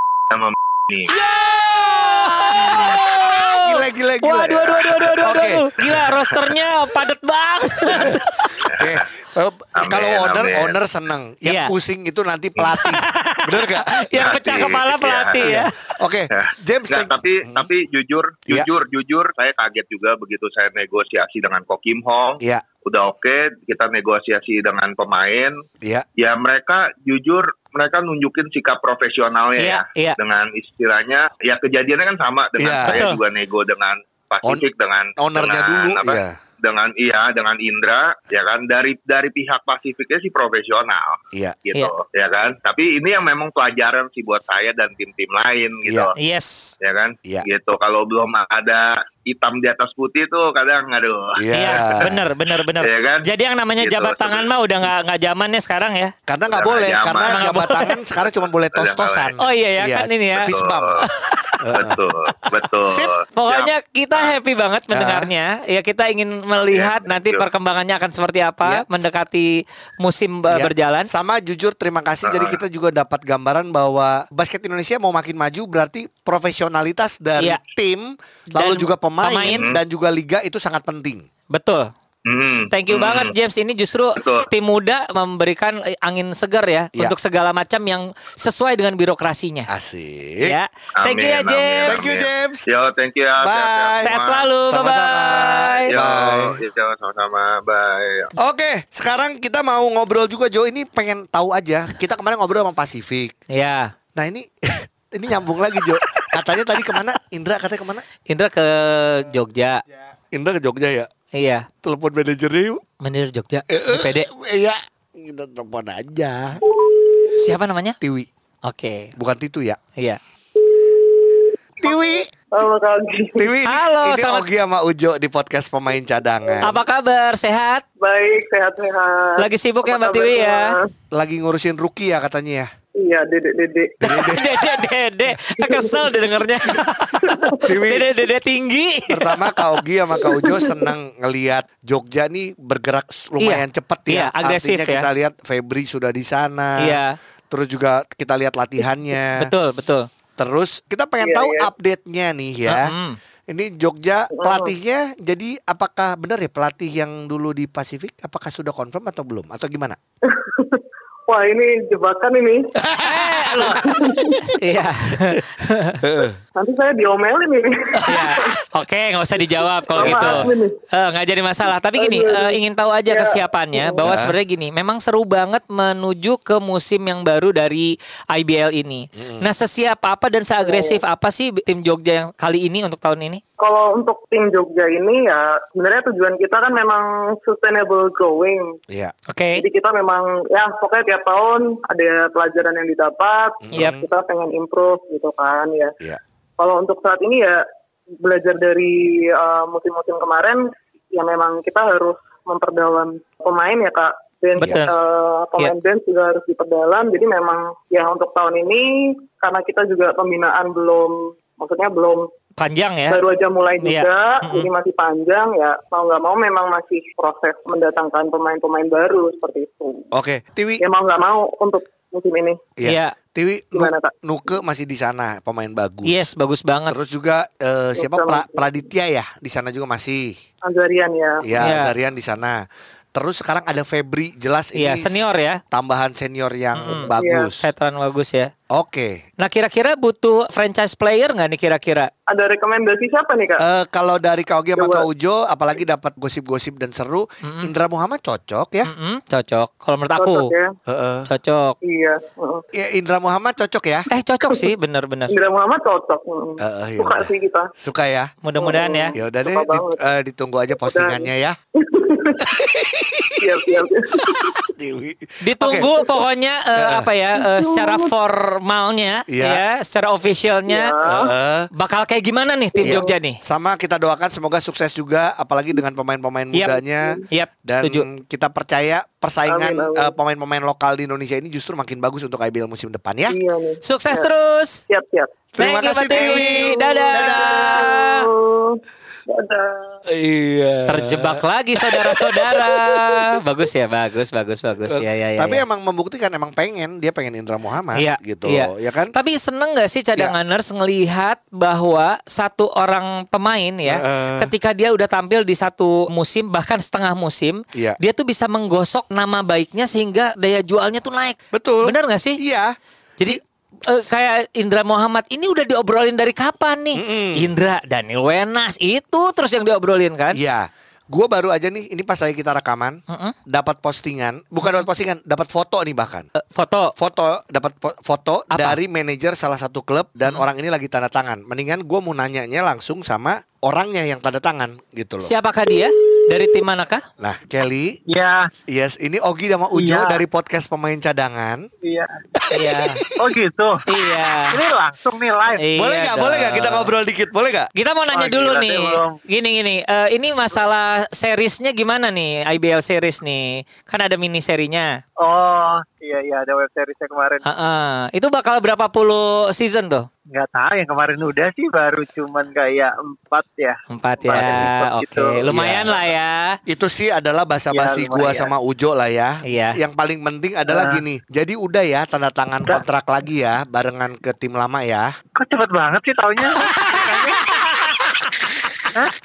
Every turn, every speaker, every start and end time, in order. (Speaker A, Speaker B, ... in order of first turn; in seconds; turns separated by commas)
Speaker A: 0.3-1.1, Speaker B: 1.2-8.6, Speaker C: 1.2-5.7, Speaker A: 8.7-9.0, Speaker C: 8.8-14.0, Speaker A: 9.8-10.8, Speaker B: 11.4-11.7, Speaker B: 12.8-15.8, Speaker A: 14.1-15.6, Speaker C: 15.4-17.7, Speaker A: 16.3-25.6, Speaker A: 26.2-46.1, Speaker B: 29.6-30.2, Speaker C: 32.6-33.0, Speaker B: 32.9-33.2, Speaker C: 35.2-36.4, Speaker C: 45.8-46.1, Speaker B: 46.2-46.7, Speaker A: 46.8-52.1, Speaker C: 51.4-52.2, Speaker B: 51.5-56.1, Speaker A: 52.8-54.5, Speaker C: 56.3-61.0, Speaker A: 56.5-57.8, Speaker B: 57.3-57.9, Speaker A: 58.7-59.3, Speaker B: 59.4-60.5, Speaker A: 60.5-61.0, Speaker B: 61.1-61.6, Speaker C: 61.6-62.0, Speaker A: 61.7-64.3, Speaker B: 63.4-71.1, Speaker C: 64.9-65.3, Speaker A: 66.5-67.4, Speaker C: 70.5-81.2, Speaker A: 72.2-72.6, Speaker B: 78.5-79.6, Speaker A: 79.5-79.8, Speaker B: 81.5-81.9, Speaker A: 82.2-83.3, Speaker B: 82.7-89.7, Speaker A: 84.2-84.5, Speaker C: 89.7-90.5, Speaker B: 90.4-92.0, Speaker A: 91.0-94.5, Speaker C: 91.9-92.6, Speaker C: 93.4-94.1, Speaker B: 94.0-95.9, Speaker C: 94.7-96.6, Speaker A: 95.3-98.3, Speaker C: 98.4-103.3, Speaker B: 103.5-103.9, Speaker C: 104.2-108.0, Speaker B: 106.0-106.3, Speaker B: 108.3-109.8, Speaker C: 110.3-111.1, Speaker B: 111.3-111.7, Speaker C: 111.8-112.8, Speaker B: 113.0-114.3, Speaker C: 113.7-116.6, Speaker B: 117.3-118.0, Speaker C: 118.0-118.3, Speaker B: 118.6-119.1, Speaker C: 119.2-119.8, Speaker D: 120.9-123.5, Speaker C: 121.8-122.3, Speaker C: 123.4-126.8, Speaker B: 123.7-124.5, Speaker B: 126.6-127.8, Speaker D: 128.0-130.9, Speaker B: 129.4-130.7, Speaker C: 131.1-132.7, Speaker D: 133.0-134.3, Speaker C: 134.0-134.5, Speaker B: 134.1-139.6, Speaker D: 135.6-136.3, Speaker D: 137.3-137.6, Speaker C: 137.6-138.1, Speaker C: 139.1-149.5, Speaker D: 140.2-140.9, Speaker B: 143.4-145.1, Speaker B: 146.8-147.1, Speaker B: 149.4-150.1, Speaker C: 150.4-152.9, Speaker D: 151.2-151.7, Speaker B: 152.7-153.2, Speaker C: 153.5-160.0, Speaker D: 154.3-154.7, Speaker D: 160.3-162.7, Speaker C: 162.8-164.6, Speaker B: 163.0-163.8, Speaker D: 163.7-164.6, Speaker B: 164.6-166.0, Speaker C: 166.0-166.4, Speaker D: 166.6-168.5, Speaker B: 168.1-183.4, Speaker C: 169.9-170.5, Speaker D: 169.9-170.8, Speaker D: 171.9-174.0, Speaker C: 174.0-174.3, Speaker C: 179.2-179.4, Speaker D: 180.6-181.0, Speaker D: 183.6-188.8, Speaker B: 189.3-189.6, Speaker D: 189.5-195.9, Speaker C: 193.6-194.0, Speaker D: 196.6-197.7, Speaker D: 198.2-212.3, Speaker B: 204.6-204.9, Speaker C: 204.6-204.8, Speaker B: 212.6-213.2, Speaker D: 213.1-220.1, Speaker B: 213.8-214.7, Speaker C: 220.1-220.8, Speaker D: 220.8-222.6, Speaker C: 222.8-226.1, Speaker B: 222.8-223.1, Speaker D: 223.7-224.1, Speaker B: 226.1-226.9, Speaker C: 226.9-230.4, Speaker D: 227.9-228.7, Speaker D: 230.7-231.4, Speaker C: 231.4-232.6, Speaker B: 231.6-231.9, Speaker C: 233.1-237.6, Speaker B: 234.8-235.6, Speaker B: 236.7-238.5, Speaker D: 237.1-237.5, Speaker C: 238.7-239.2, Speaker B: 239.4-242.1, Speaker D: 242.3-243.6, Speaker C: 243.6-248.9, Speaker D: 244.8-245.1, Speaker B: 247.4-247.7, Speaker B: 248.8-250.5, Speaker D: 250.2-250.7, Speaker C: 250.9-251.3, Speaker B: 251.3-251.8, Speaker D: 251.8-252.6, Speaker C: 252.7-254.1, Speaker B: 254.1-255.3, Speaker D: 255.3-257.7, Speaker C: 256.6-258.3, Speaker B: 258.4-259.1, Speaker D: 258.6-260.0, Speaker C: 259.1-261.6, Speaker D: 260.8-262.6, Speaker C: 262.4-263.4, Speaker D: 263.4-264.2, Speaker C: 264.2-265.9, Speaker B: 265.4-270.9, Speaker C: 266.7-267.1, Speaker D: 267.4-268.1, Speaker C: 269.3-269.6, Speaker D: 270.7-271.3, Speaker C: 271.0-271.7, Speaker B: 271.7-273.4, Speaker D: 272.8-273.1, Speaker C: 272.8-283.4, Speaker B: 276.5-276.8, Speaker B: 277.3-278.1, Speaker D: 279.5-280.1, Speaker D: 283.3-284.3, Speaker B: 283.8-284.8, Speaker D: 284.9-285.4, Speaker C: 285.6-287.9, Speaker B: 285.6-288.3, Speaker D: 286.0-290.0, Speaker C: 290.1-293.3, Speaker B: 290.9-295.6, Speaker C: 294.9-299.1, Speaker B: 297.9-312.4, Speaker C: 303.9-304.5, Speaker C: 311.5-313.4, Speaker B: 313.2-320.4, Speaker C: 316.9-317.5, Speaker C: 320.3-323.0, Speaker B: 323.1-323.3, Speaker C: 323.5-326.3, Speaker B: 326.4-326.9, Speaker C: 327.0-335.3, Speaker B: 328.5-328.8, Speaker B: 335.2-337.0, Speaker C: 337.2-338.0, Speaker E: 338.1-338.5, Speaker C: 338.7-341.6, Speaker E: 339.7-340.2, Speaker E: 341.8-342.2, Speaker C: 342.3-343.2, Speaker B: 342.5-343.0, Speaker E: 343.2-344.0, Speaker B: 343.9-344.6, Speaker E: 344.5-345.7, Speaker B: 345.6-346.9, Speaker C: 345.8-347.7, Speaker B: 347.7-354.9, Speaker E: 348.1-349.2, Speaker E: 355.2-357.4, Speaker B: 357.4-360.1, Speaker E: 360.3-365.5, Speaker B: 363.9-366.6, Speaker C: 364.3-364.7, Speaker C: 365.5-365.9, Speaker C: 366.7-375.1, Speaker E: 367.7-368.5, Speaker B: 369.4-369.8, Speaker E: 370.6-371.0, Speaker E: 375.4-377.4